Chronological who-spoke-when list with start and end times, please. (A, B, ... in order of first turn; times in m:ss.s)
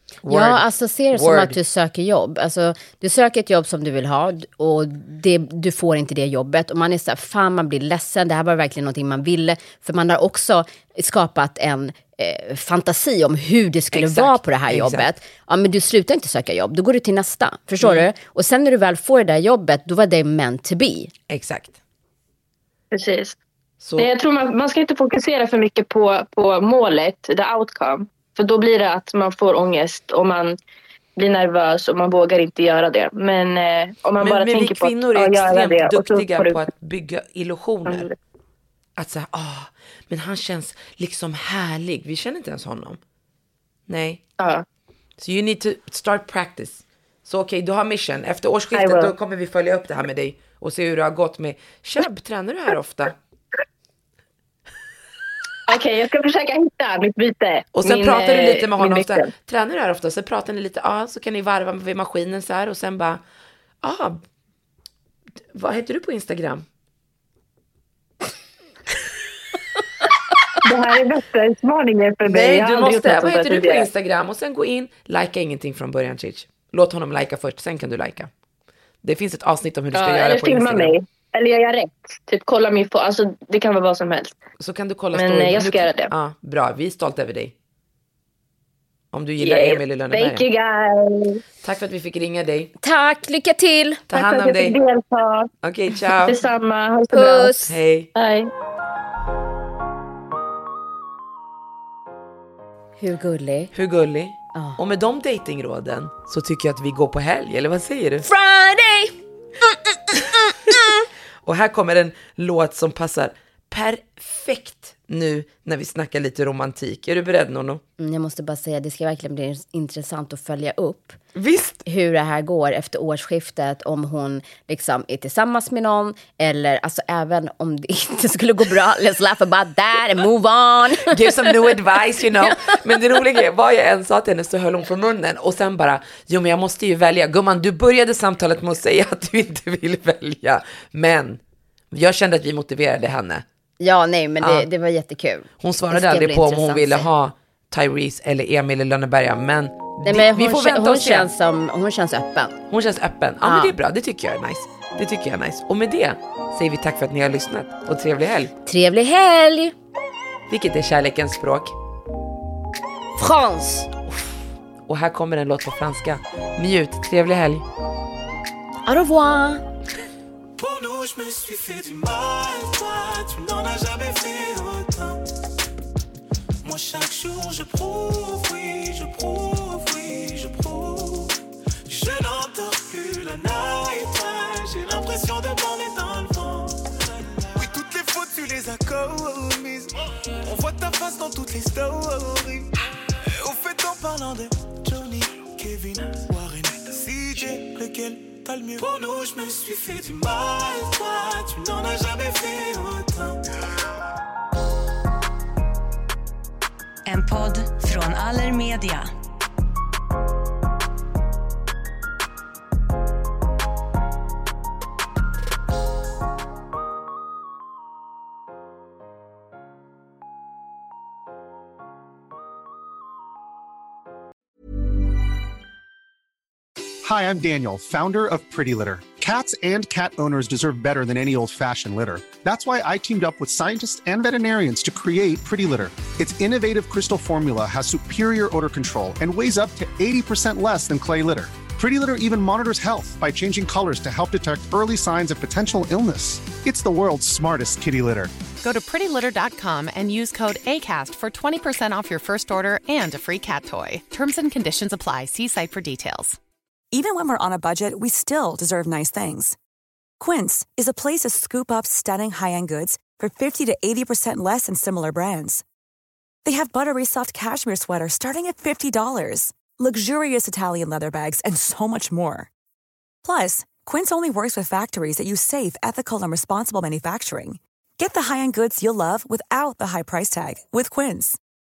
0:00.2-0:01.5 A
0:00.3-0:21.1 B
0:13.9-0:15.1 A
0:17.8-0:18.1 A
0:21.3-0:21.7 A
0:22.9-0:23.4 C
0:23.8-0:24.1 A
0:24.0-0:30.6 C
0:31.2-0:36.6 C
0:34.2-0:38.1 A
0:37.8-0:38.1 C
0:39.0-0:43.0 A
0:43.9-0:44.2 A
0:44.4-0:44.6 C
0:45.2-0:53.2 A
0:48.7-0:49.1 C
0:55.7-0:59.3 C
0:57.7-1:03.2 A
1:03.8-1:04.2 A
1:05.5-1:06.6 A
1:10.6-1:13.9 C
1:12.2-1:18.3 A
1:19.0-1:20.9 A
1:19.9-1:24.4 C
1:24.6-1:27.5 A
1:25.1-1:26.1 C
1:29.1-1:30.4 A
1:29.4-1:31.4 C
1:31.6-1:32.7 A
1:32.8-1:34.0 B
1:34.1-1:34.8 A
1:34.1-1:35.5 C
1:35.6-1:36.4 A
1:36.2-1:37.5 C
1:37.1-1:37.7 B
1:37.6-1:38.1 A
1:38.1-1:38.5 C
1:43.0-1:43.7 B
1:43.7-1:48.3 A
1:44.5-1:44.8 B
1:48.2-1:49.1 B
1:51.4-1:57.8 A
1:58.0-2:01.2 B
2:01.3-2:01.8 A
2:01.8-2:11.3 B
2:11.0-2:21.4 A
2:21.9-2:23.4 A
2:23.8-2:27.1 B
2:24.4-2:24.7 A
2:25.6-2:31.3 A
2:30.0-2:32.6 B
2:32.7-2:38.5 A
2:33.4-2:33.7 B
2:38.6-2:39.7 B
2:40.5-2:41.7 A
2:43.2-2:43.9 B
2:44.8-2:47.6 A
2:48.8-2:49.6 B
2:50.6-2:55.2 D
2:56.6-3:01.3 D
3:01.8-3:12.7 D
3:13.2-3:23.4 D
3:27.0-3:29.1 E
3:47.0-4:08.3 F
4:08.6-4:16.4 G
4:16.9-4:19.6 H
4:20.2-4:25.6 H
4:26.4-4:32.5 H
4:33.2-4:41.4 H